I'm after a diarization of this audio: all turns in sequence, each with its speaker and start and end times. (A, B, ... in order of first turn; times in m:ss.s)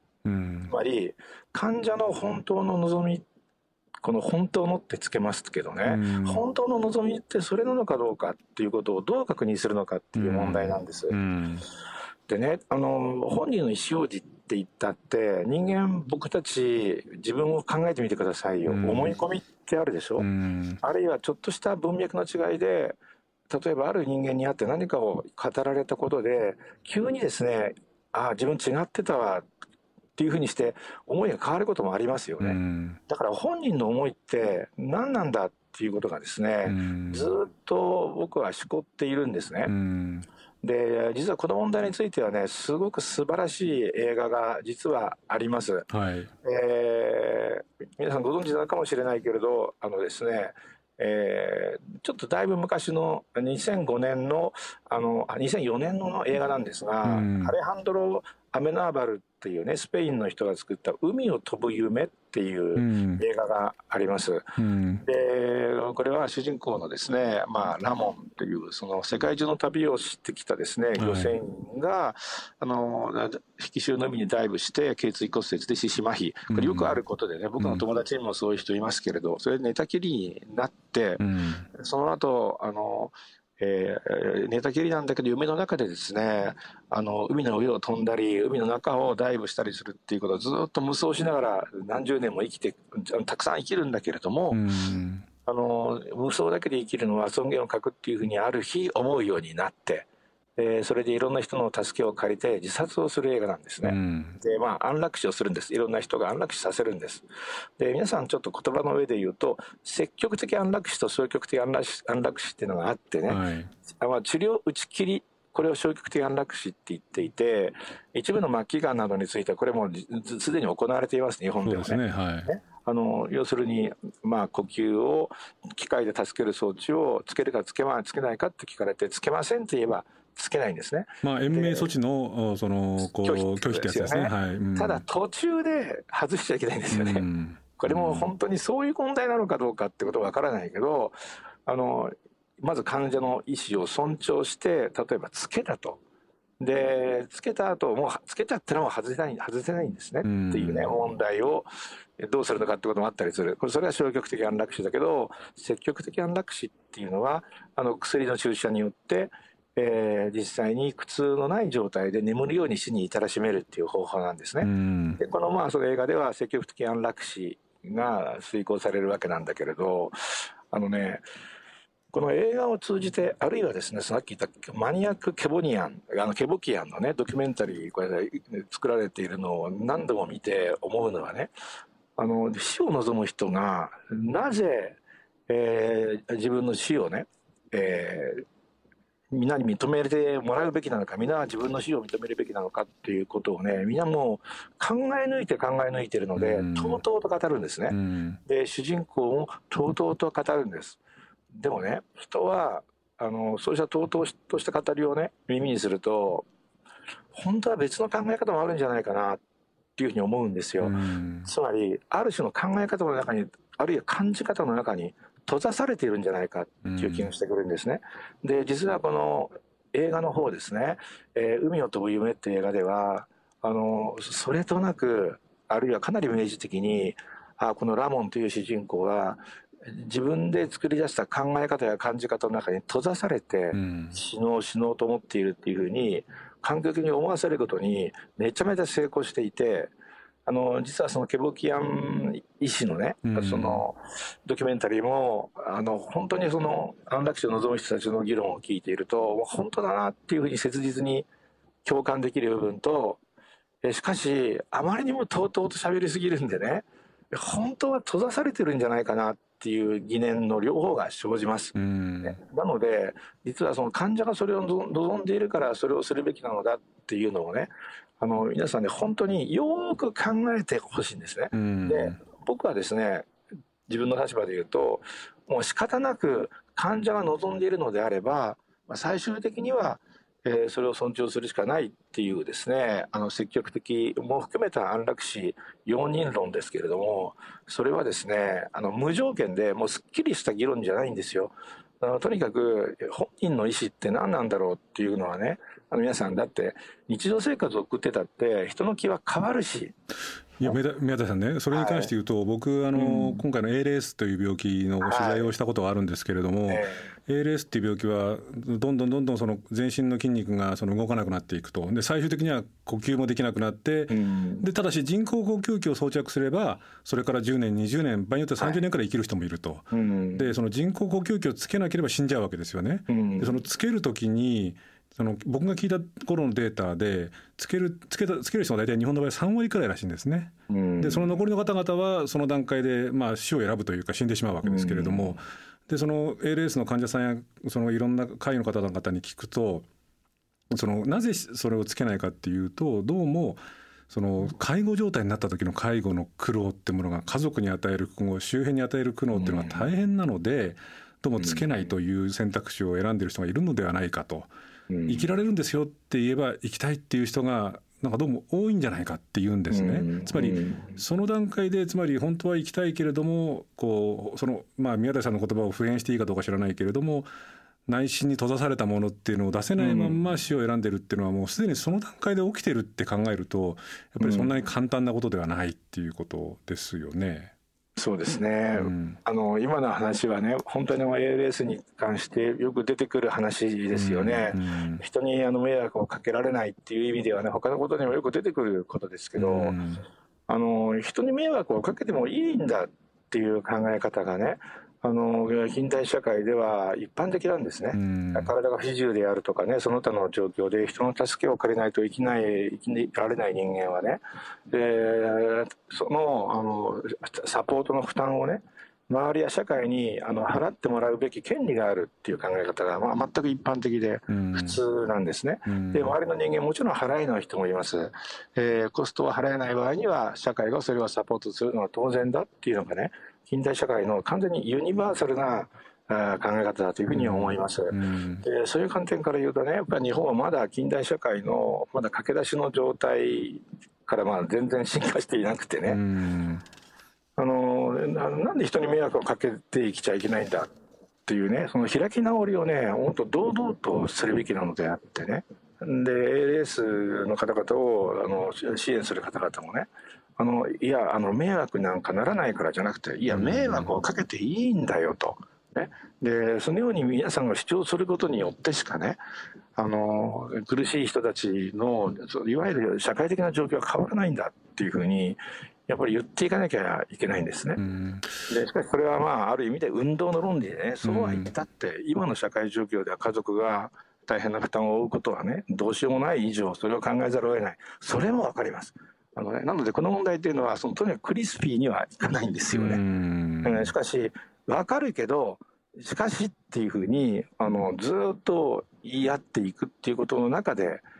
0:00.2-0:00.7 A
0:00.7-0:03.2 B
0:04.0-0:11.2 B
0:05.8-0:06.4 A
0:10.2-0:11.6 A
0:12.3-0:20.3 B
0:18.7-0:19.2 A
0:20.2-0:20.8 A
0:20.8-0:23.0 B
0:23.5-0:29.5 B
0:30.2-0:39.7 B
0:32.4-0:33.0 A
0:36.6-0:37.3 A
0:39.7-0:40.2 A
0:40.6-0:45.9 B
0:45.9-0:46.3 A
0:46.4-1:04.5 B
0:57.0-0:57.5 A
1:02.8-1:03.2 A
1:04.6-1:05.0 A
1:05.0-1:34.6 B
1:11.0-1:11.3 A
1:16.5-1:17.0 A
1:21.2-1:21.7 A
1:34.5-1:35.2 A
1:35.4-1:47.2 B
1:43.8-1:44.4 A
1:47.8-2:11.9 B
1:53.3-1:53.7 A
2:01.6-2:02.5 A
2:11.2-2:15.0 A
2:13.0-2:21.1 B
2:16.9-2:18.3 A
2:21.6-2:26.0 B
2:26.6-2:31.7 B
2:30.2-2:31.0 A
2:32.2-2:51.2 B
2:44.6-2:45.2 A
2:52.1-3:01.5 B
3:02.2-3:08.4 B
3:09.3-3:21.0 B
3:16.4-3:17.0 A
3:17.9-3:18.4 A
3:21.6-3:26.4 B
3:27.3-3:29.4 B
3:30.0-3:59.9 B
3:30.8-3:31.5 A
3:36.8-3:37.3 A
3:53.7-3:54.1 A
4:00.4-4:11.3 B
4:03.2-4:03.8 A
4:11.8-4:13.2 B
4:13.8-4:33.3 B
4:21.8-4:22.4 A
4:31.5-4:32.2 A
4:33.9-4:59.9 B
5:00.6-5:39.9 A
5:01.7-5:02.1 B
5:02.9-5:03.4 B
5:05.0-5:05.5 B
5:06.7-5:07.1 B
5:14.1-5:14.6 B
5:19.9-5:20.5 B
5:23.1-5:23.6 B
5:30.7-5:31.3 B
5:34.6-5:35.4 B
5:40.7-5:54.5 A
5:49.3-5:49.9 B
5:51.4-5:51.6 B
5:54.9-5:55.2 B
5:55.1-6:07.3 A
5:59.7-6:01.0 B
6:07.9-6:17.5 A
6:09.8-6:10.2 B
6:14.2-6:14.5 B
6:18.0-6:29.8 B
6:18.8-6:19.2 A
6:23.9-6:25.0 A
6:29.4-6:30.0 A
6:30.5-6:44.2 B
6:37.9-6:38.5 A
6:44.7-7:16.0 B
6:54.3-6:54.8 A
6:55.6-6:56.1 A
7:07.1-7:08.4 A
7:15.9-7:16.6 A
7:17.4-7:20.7 B
7:21.2-7:39.2 B
7:33.3-7:33.9 A
7:39.8-7:47.8 B
7:47.8-7:48.4 A
7:48.5-8:03.0 B
7:51.0-7:51.5 A
8:02.7-8:03.9 A
8:03.6-8:11.0 B